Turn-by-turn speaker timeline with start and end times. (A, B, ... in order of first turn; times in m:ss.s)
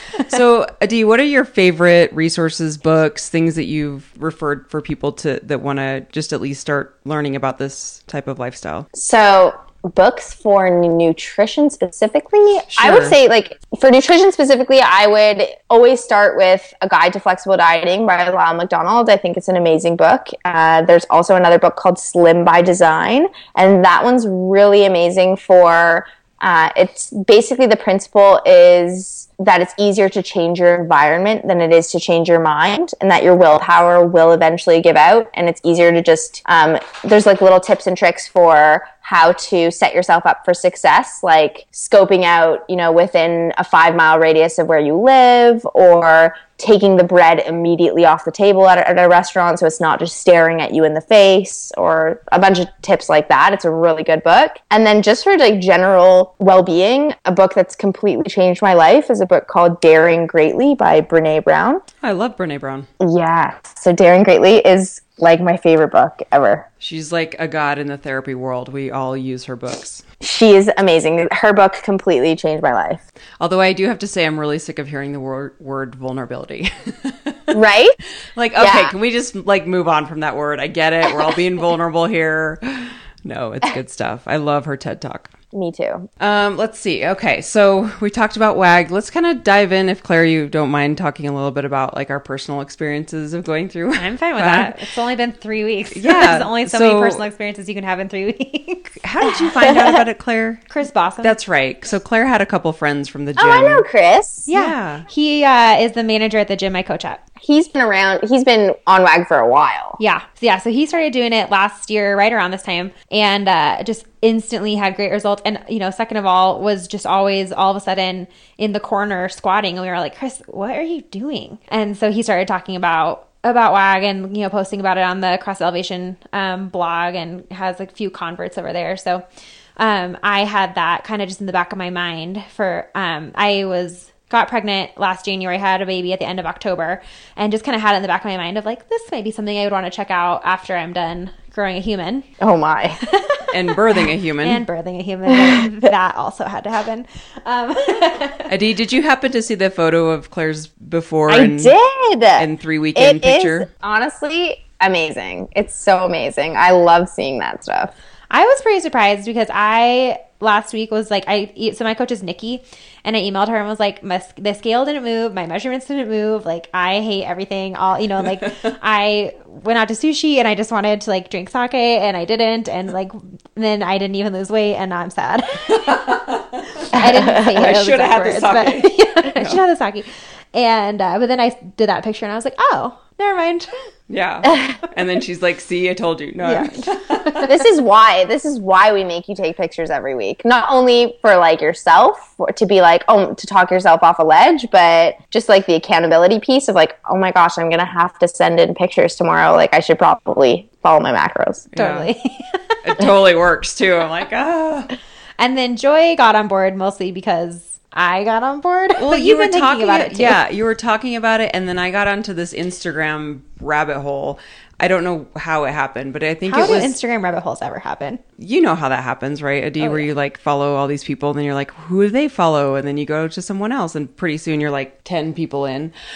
0:00.1-0:08.9 A
0:08.9-1:01.8 B
0:12.8-0:13.2 A
1:02.0-1:02.9 A
1:03.0-1:06.7 B
1:06.8-1:10.0 A
1:10.2-1:13.0 B
1:13.4-1:17.6 A
1:17.5-1:18.0 B
1:18.4-1:25.3 A
1:18.6-1:18.9 B
1:25.5-1:26.1 B
1:26.2-1:34.8 A
1:34.0-1:39.0 C
1:36.0-1:37.2 A
1:39.0-1:40.7 A
1:40.7-1:41.4 C
1:41.2-1:43.8 A
1:43.4-1:44.5 B
1:44.5-1:47.2 C
1:44.5-1:45.0 A
1:47.4-1:50.0 B
1:50.0-2:09.2 C
2:09.8-2:22.3 C
2:22.4-2:23.0 B
2:23.0-2:28.5 C
2:23.5-2:24.6 A
2:25.3-2:25.6 B
2:28.5-2:31.7 A
2:31.3-2:37.9 B
2:32.4-2:33.7 A
2:38.3-2:56.0 C
2:55.7-2:56.7 A
2:56.8-3:03.8 C
2:57.0-2:57.5 B
2:57.3-2:59.6 A
3:04.1-3:07.5 A
3:06.4-3:06.7 C
3:07.4-3:21.7 B
3:21.7-3:22.1 A
3:21.8-3:22.6 C
3:22.8-3:24.9 A
3:25.4-3:30.4 C
3:29.0-3:37.0 A
3:36.5-3:38.2 C
3:38.4-3:45.9 A
3:39.8-3:40.1 C